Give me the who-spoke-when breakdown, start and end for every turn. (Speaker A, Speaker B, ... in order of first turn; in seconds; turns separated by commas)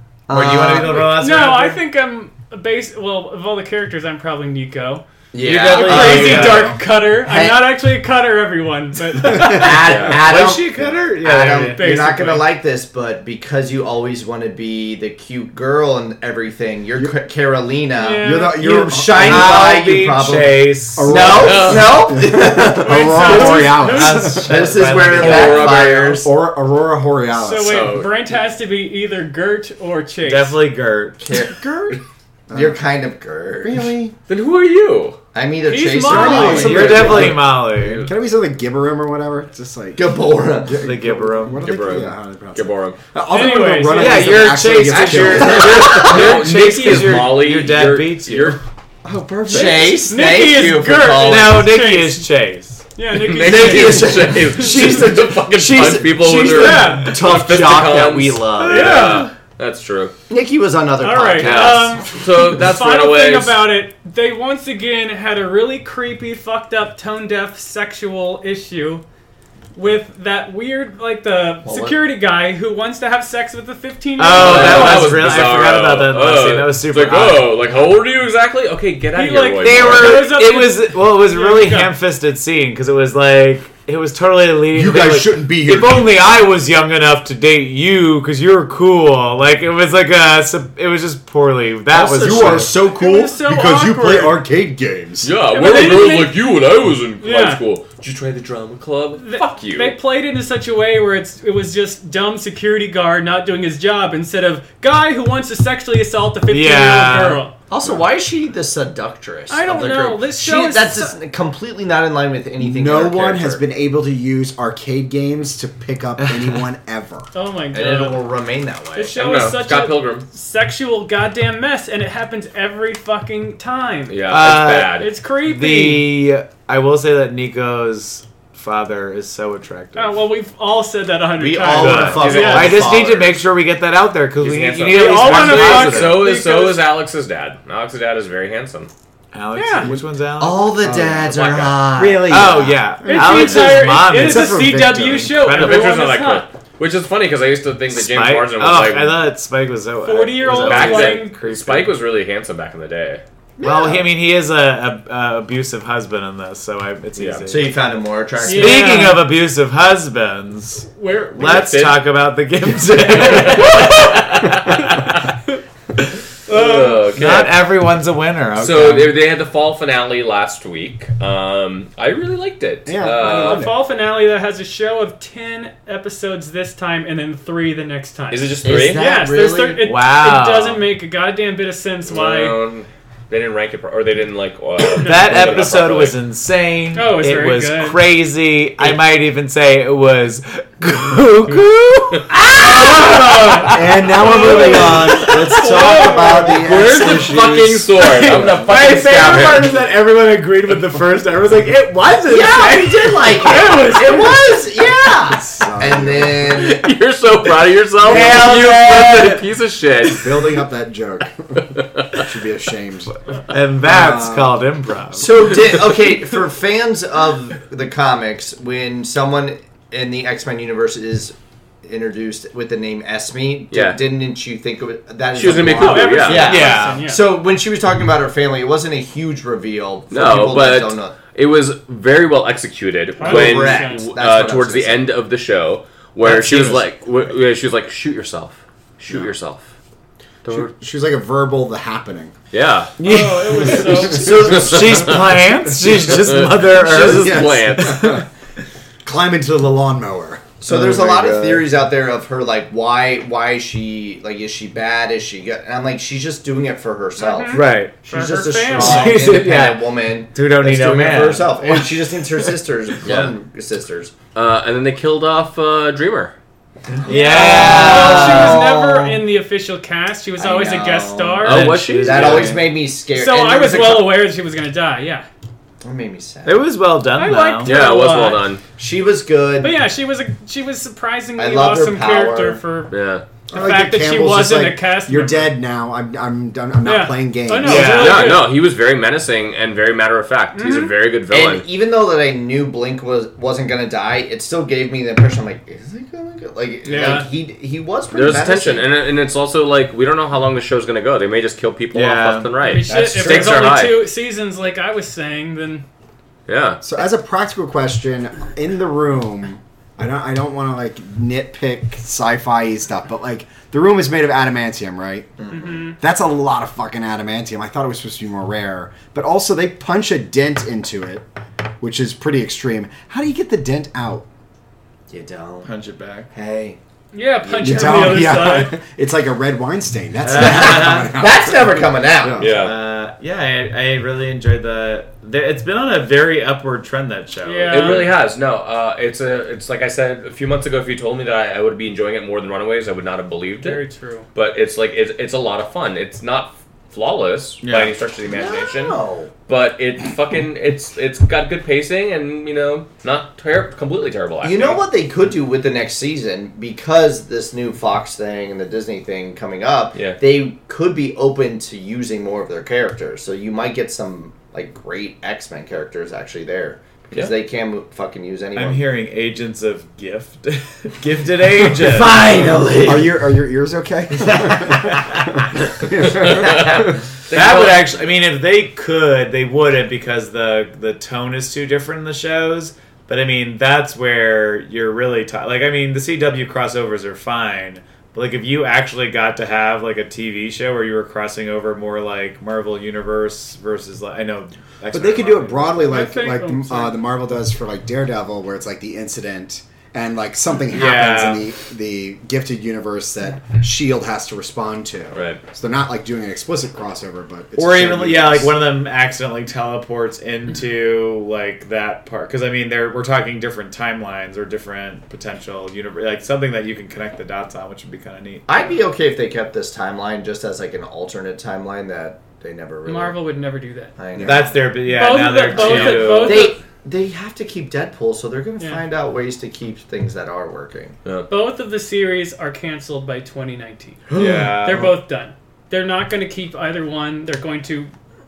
Speaker A: 0.3-1.1, Speaker B: 0.3-1.8, Speaker C: 0.9-5.0, Speaker A: 5.3-7.7, Speaker B: 5.4-6.8, Speaker C: 5.7-9.8, Speaker D: 9.2-9.8, Speaker A: 9.3-23.8, Speaker E: 9.8-10.2, Speaker B: 10.0-11.9, Speaker C: 11.7-12.5, Speaker C: 17.9-18.6, Speaker D: 18.2-19.7, Speaker B: 19.1-21.4, Speaker D: 20.9-28.0, Speaker E: 21.3-22.0, Speaker C: 22.6-24.5, Speaker B: 23.7-25.8, Speaker A: 24.4-26.3, Speaker E: 25.1-26.3, Speaker C: 27.3-30.6, Speaker E: 27.5-28.3, Speaker B: 30.2-31.5, Speaker A: 31.2-33.9, Speaker D: 32.5-32.8, Speaker D: 33.6-34.1, Speaker E: 34.3-35.2, Speaker A: 35.3-37.4, Speaker C: 35.6-36.9, Speaker D: 36.0-46.0, Speaker B: 36.3-38.0, Speaker E: 36.6-38.1, Speaker A: 40.0-40.8, Speaker B: 40.8-41.7, Speaker E: 41.6-43.0, Speaker C: 43.3-44.5, Speaker B: 43.9-48.6, Speaker A: 44.8-46.4, Speaker E: 45.5-48.6, Speaker D: 49.0-49.9, Speaker A: 49.4-51.6, Speaker C: 49.9-52.3, Speaker B: 51.2-52.9, Speaker C: 52.9-54.5, Speaker E: 53.1-60.1, Speaker A: 53.4-59.0, Speaker B: 55.6-57.2, Speaker C: 56.5-57.2, Speaker B: 58.6-59.3, Speaker C: 58.7-59.3, Speaker A: 60.3-62.1, Speaker C: 61.0-69.0, Speaker E: 61.4-63.6, Speaker C: 69.7-75.3, Speaker A: 71.6-72.0, Speaker B: 74.2-77.5, Speaker E: 74.3-80.3, Speaker C: 79.1-81.9, Speaker B: 79.6-92.7, Speaker D: 84.7-86.1, Speaker A: 91.9-93.3, Speaker D: 92.2-95.3, Speaker C: 92.8-94.4, Speaker E: 95.2-100.0, Speaker C: 95.5-96.4, Speaker C: 97.2-97.6, Speaker C: 99.2-107.5, Speaker B: 106.5-107.4, Speaker A: 107.7-113.6, Speaker C: 109.5-111.2, Speaker D: 112.6-117.3, Speaker B: 116.2-116.6, Speaker C: 117.3-118.2, Speaker A: 117.7-119.2, Speaker C: 118.9-124.2, Speaker E: 119.1-120.2, Speaker E: 124.1-125.1, Speaker B: 124.3-130.2, Speaker C: 124.9-126.1, Speaker C: 129.9-132.8, Speaker A: 131.4-133.4, Speaker B: 131.8-136.3, Speaker E: 132.1-133.0, Speaker E: 134.4-138.9, Speaker C: 134.9-136.8, Speaker B: 139.3-140.8, Speaker C: 139.5-139.9, Speaker A: 140.4-142.5, Speaker D: 140.8-141.3, Speaker E: 141.3-141.8, Speaker D: 141.9-145.4, Speaker B: 142.1-146.0, Speaker C: 143.0-146.5, Speaker E: 145.5-149.2, Speaker B: 147.9-152.0, Speaker C: 150.0-151.4, Speaker E: 150.5-153.2, Speaker B: 153.6-157.8, Speaker A: 153.6-154.0, Speaker E: 157.2-157.4, Speaker A: 157.5-159.1, Speaker B: 158.4-165.2, Speaker C: 158.4-159.3, Speaker C: 160.9-161.6, Speaker E: 161.4-162.0, Speaker E: 163.0-165.2, Speaker C: 166.5-167.0, Speaker E: 166.5-167.6, Speaker B: 167.1-169.2, Speaker E: 168.6-173.7, Speaker D: 172.8-173.8, Speaker C: 173.2-182.6, Speaker E: 178.3-179.0, Speaker A: 178.6-179.8, Speaker B: 179.8-180.8, Speaker E: 182.1-186.2, Speaker B: 184.9-193.8, Speaker C: 185.0-185.6, Speaker C: 186.9-188.0, Speaker E: 192.1-193.8, Speaker D: 193.7-197.8, Speaker C: 194.2-196.5, Speaker B: 194.3-195.1, Speaker E: 194.5-195.1, Speaker A: 195.5-197.6, Speaker E: 195.7-199.7, Speaker B: 197.9-204.5, Speaker A: 202.3-206.8, Speaker C: 203.4-204.2, Speaker D: 205.3-206.7, Speaker E: 206.3-210.3, Speaker B: 208.0-209.4, Speaker D: 210.2-213.1, Speaker E: 211.6-212.2, Speaker B: 213.5-215.7, Speaker D: 213.8-214.6, Speaker A: 215.2-231.2, Speaker E: 223.7-224.0, Speaker E: 225.3-226.6, Speaker C: 225.8-227.3, Speaker B: 226.2-227.1, Speaker E: 230.1-239.6, Speaker C: 233.2-234.1, Speaker A: 233.2-235.1, Speaker A: 236.3-236.8, Speaker E: 240.4-240.7, Speaker D: 240.5-242.3, Speaker E: 242.5-242.9, Speaker B: 243.0-248.2, Speaker C: 243.0-244.3, Speaker A: 244.0-245.3, Speaker E: 244.2-245.3, Speaker E: 246.0-248.2, Speaker D: 246.9-248.2, Speaker D: 249.0-251.6, Speaker A: 250.6-264.1, Speaker C: 257.2-259.3, Speaker B: 257.5-258.0, Speaker B: 258.7-261.9, Speaker E: 263.0-263.3, Speaker E: 264.3-266.3, Speaker B: 267.0-268.6, Speaker A: 267.1-269.2, Speaker C: 267.1-271.8, Speaker A: 270.4-274.2, Speaker E: 271.4-272.6, Speaker B: 271.4-272.7, Speaker C: 273.1-275.3, Speaker A: 275.8-276.7, Speaker B: 276.4-277.8, Speaker C: 277.1-278.4, Speaker E: 277.6-278.6, Speaker A: 278.8-279.8, Speaker C: 279.6-282.9, Speaker A: 281.4-282.6, Speaker E: 282.9-283.2, Speaker D: 283.5-288.0, Speaker C: 283.5-285.6, Speaker C: 286.8-288.5, Speaker B: 287.6-288.4, Speaker E: 287.8-291.6, Speaker C: 290.5-290.9, Speaker A: 291.3-298.9, Speaker C: 296.8-297.2, Speaker E: 298.1-304.1, Speaker B: 301.9-303.6, Speaker C: 302.6-305.8, Speaker E: 306.5-306.8, Speaker D: 306.8-315.3, Speaker A: 315.4-315.8, Speaker C: 315.5-316.0, Speaker D: 316.0-321.2, Speaker D: 321.8-324.2, Speaker A: 325.1-325.7, Speaker B: 325.6-326.3, Speaker A: 326.3-326.8, Speaker C: 327.1-328.8, Speaker E: 327.4-328.1, Speaker D: 327.6-332.5, Speaker B: 330.2-331.1, Speaker A: 330.3-332.5, Speaker E: 332.4-332.8, Speaker B: 332.4-338.1, Speaker C: 337.4-338.1, Speaker E: 337.7-343.8, Speaker C: 343.6-344.2, Speaker E: 344.3-354.8, Speaker B: 347.6-348.0, Speaker A: 348.3-349.3, Speaker A: 354.4-368.8, Speaker E: 359.9-360.2, Speaker B: 368.5-372.4, Speaker A: 371.7-373.1, Speaker D: 372.8-376.9, Speaker B: 374.8-375.3, Speaker E: 376.0-377.9, Speaker B: 377.3-395.9, Speaker D: 394.9-408.5, Speaker C: 395.8-396.9, Speaker B: 400.7-401.5, Speaker E: 405.1-405.4, Speaker B: 407.6-418.8, Speaker A: 418.5-423.2, Speaker C: 422.9-423.9, Speaker A: 424.0-424.7, Speaker D: 424.1-424.4, Speaker B: 424.2-426.3, Speaker C: 424.7-426.6, Speaker E: 425.5-426.5, Speaker A: 426.2-430.9, Speaker C: 428.6-428.8, Speaker C: 431.3-437.9, Speaker A: 434.1-434.6, Speaker B: 434.1-435.0, Speaker E: 434.2-434.5